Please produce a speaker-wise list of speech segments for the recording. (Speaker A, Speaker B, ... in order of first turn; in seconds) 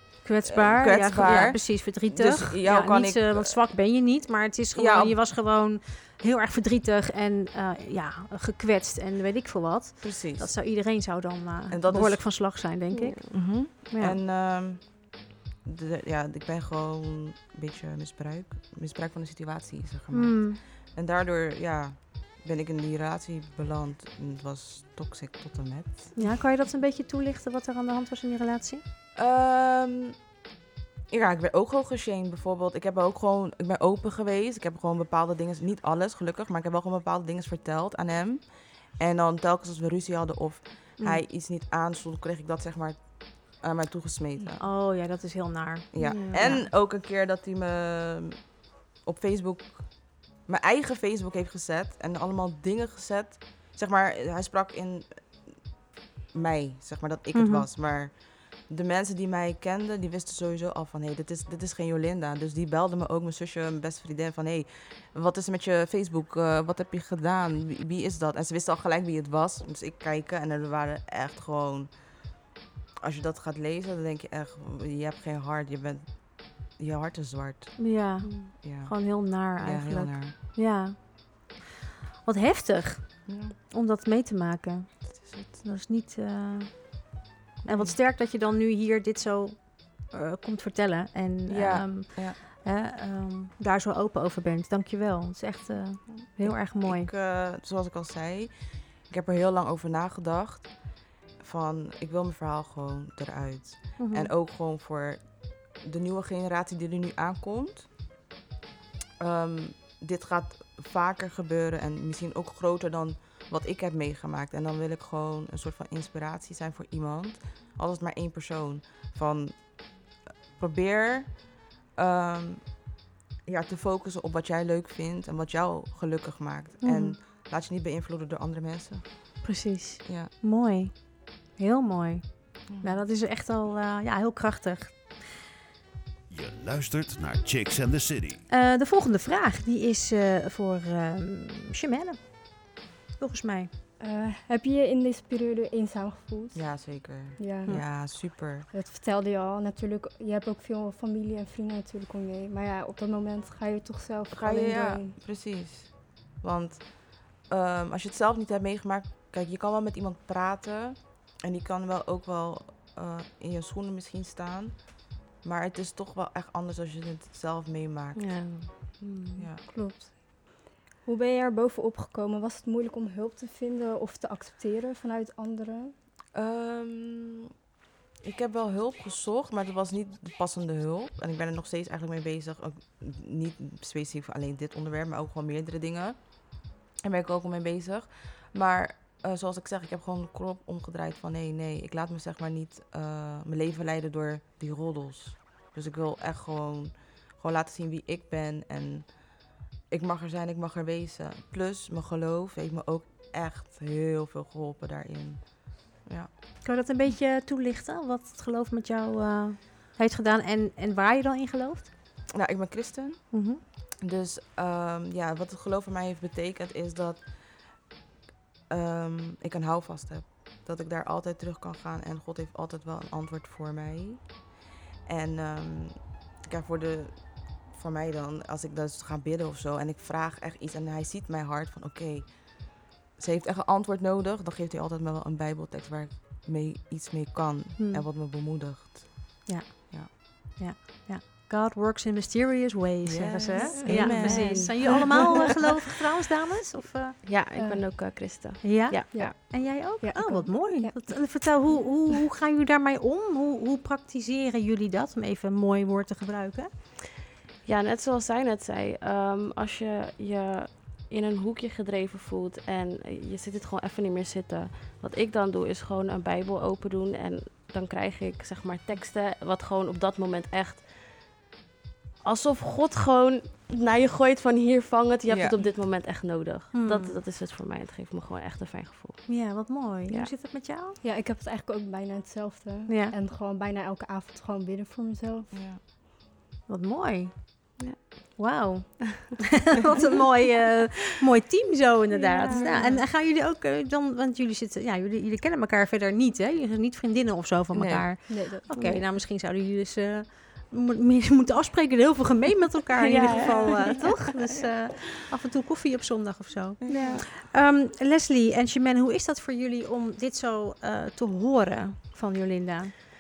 Speaker A: 0.2-14.2, 20.1-20.6, 26.2-28.8, 41.0-41.2, 44.6-46.7, 57.3-57.7, 77.8-81.5, 82.2-97.1, 104.0-104.3, 126.8-127.2, 130.4-135.2, 138.5-143.7, 206.6-211.9, 213.3-213.6, 237.8-238.1, 239.5-247.2, 248.6-256.7, 276.7-277.2, 279.3-281.0, 282.9-283.1, 286.7-312.9
Speaker B: 0.5-3.6, 4.7-5.2, 10.0-10.6, 11.7-12.5, 13.3-26.2, 29.1-30.4, 31.1-44.7, 45.9-55.8, 56.3-72.4, 73.0-77.9, 78.6-80.3, 83.3-83.6, 85.2-85.5, 87.7-88.0, 91.5-92.4, 96.1-107.9, 109.2-129.4, 130.0-130.3, 132.7-133.0, 146.5-148.7, 154.3-169.6, 176.3-177.5, 178.2-206.3, 212.3-217.9, 218.7-224.5, 225.1-240.1, 243.0-245.1, 275.3-275.6, 285.5-285.8, 292.5-292.9, 297.7-298.1, 306.8-307.2
Speaker C: 12.9-13.2, 46.0-46.5, 78.2-78.5, 129.4-130.0, 168.2-169.5, 243.8-245.2, 247.2-249.3, 257.6-270.9, 272.2-280.3, 287.8-288.4, 292.2-292.9, 298.7-299.1, 303.0-304.2, 306.9-307.2
Speaker D: 136.3-138.4
Speaker E: 144.0-155.2, 169.7-175.9, 243.6-244.7, 247.5-247.8, 249.1-251.0, 281.0-285.6, 298.3-298.7, 306.9-307.2